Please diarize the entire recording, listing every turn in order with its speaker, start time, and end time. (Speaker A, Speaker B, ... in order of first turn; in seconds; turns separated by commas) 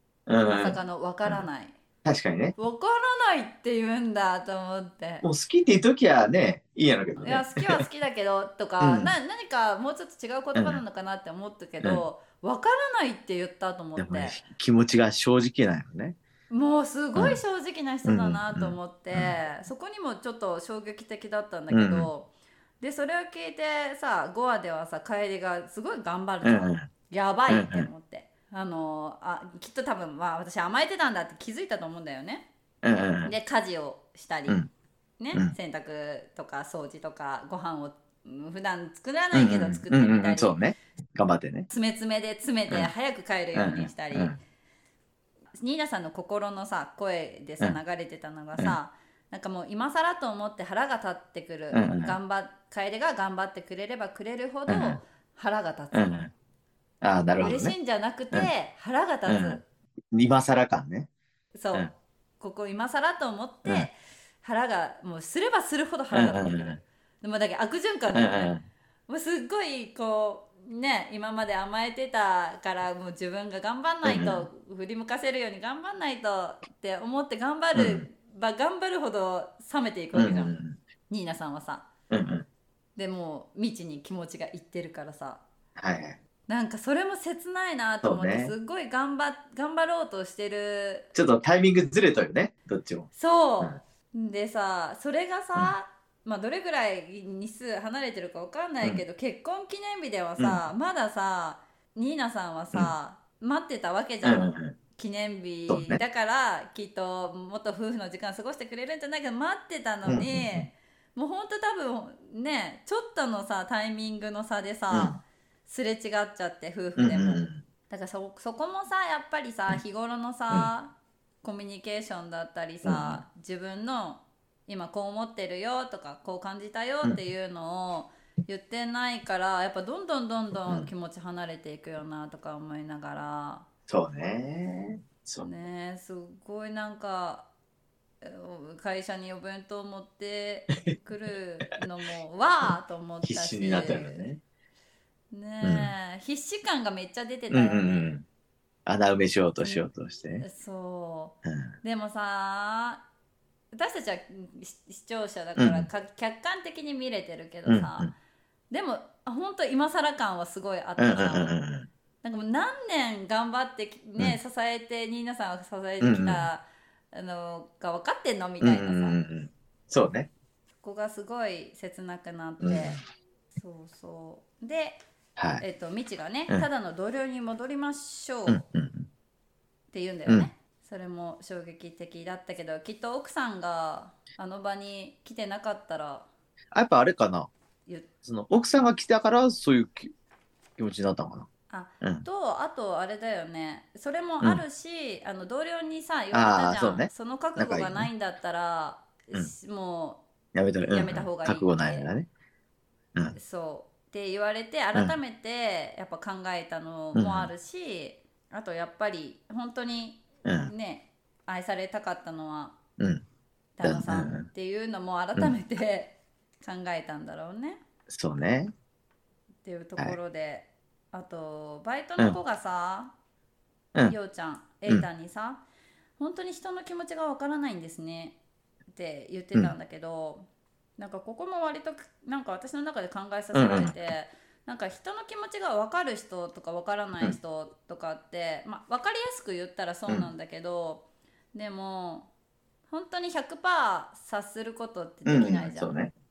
Speaker A: 0.3-1.4, Speaker B: 0.4-1.8, Speaker A: 2.0-2.6, Speaker B: 2.6-5.2, Speaker A: 5.2-7.8, Speaker B: 7.2-14.4, Speaker A: 8.8-9.2, Speaker A: 10.6-10.8, Speaker A: 14.0-16.2, Speaker B: 16.5-32.5, Speaker A: 18.1-19.4, Speaker A: 21.7-22.1, Speaker A: 26.4-26.9, Speaker A: 27.5-27.9, Speaker A: 32.8-33.4, Speaker B: 33.2-34.6, Speaker B: 35.2-40.6, Speaker A: 39.3-41.7, Speaker B: 41.7-44.4, Speaker A: 43.5-44.4, Speaker B: 45.6-56.2, Speaker A: 51.7-52.2, Speaker A: 54.7-55.0, Speaker A: 55.9-56.3, Speaker A: 57.0-57.8, Speaker B: 57.4-59.6, Speaker A: 59.3-59.6, Speaker A: 60.1-61.1, Speaker B: 61.5-68.5, Speaker A: 66.1-66.8, Speaker A: 68.1-68.7, Speaker B: 69.1-80.6, Speaker A: 74.0-74.5, Speaker A: 77.8-78.0, Speaker A: 80.1-80.8, Speaker B: 81.1-81.9, Speaker A: 82.1-82.5, Speaker B: 83.0-85.4, Speaker A: 85.8-86.2, Speaker B: 86.5-91.1, Speaker A: 88.0-88.5, Speaker A: 91.1-93.1, Speaker B: 93.1-133.7, Speaker A: 100.4-100.6, Speaker A: 104.2-104.8, Speaker A: 105.7-106.0, Speaker A: 110.1-110.7, Speaker A: 114.9-115.2, Speaker A: 117.0-117.6, Speaker A: 122.8-123.2, Speaker A: 133.9-135.5, Speaker B: 135.4-137.5, Speaker B: 138.2-144.3, Speaker A: 143.2-144.4, Speaker B: 145.3-148.1, Speaker A: 145.6-145.9, Speaker A: 147.5-148.2, Speaker A: 148.9-150.4, Speaker B: 149.6-149.9, Speaker B: 150.4-153.1, Speaker A: 151.4-151.7, Speaker B: 153.7-158.1, Speaker A: 155.6-155.9, Speaker A: 157.7-158.1, Speaker B: 158.7-161.6, Speaker A: 161.0-161.9, Speaker B: 162.2-169.2, Speaker A: 166.0-166.5, Speaker A: 168.6-170.3, Speaker B: 170.8-173.0, Speaker A: 172.6-173.0, Speaker B: 173.6-175.0, Speaker A: 175.4-175.6, Speaker B: 175.6-178.6, Speaker A: 178.5-179.1, Speaker B: 179.9-186.3, Speaker A: 186.7-187.5, Speaker A: 188.2-190.1, Speaker A: 190.8-191.5, Speaker B: 191.7-200.2, Speaker A: 192.0-192.3, Speaker A: 196.3-198.1, Speaker A: 200.5-202.3, Speaker B: 200.8-202.1, Speaker B: 203.3-212.8, Speaker A: 207.2-207.5, Speaker A: 210.4-210.7, Speaker A: 213.0-213.2, Speaker B: 213.8-217.8, Speaker A: 213.8-214.5, Speaker A: 218.1-218.7, Speaker B: 219.7-223.1, Speaker B: 224.1-225.6, Speaker B: 226.2-228.4, Speaker B: 228.9-242.3, Speaker A: 233.5-233.9, Speaker B: 242.9-245.9, Speaker A: 245.3-246.1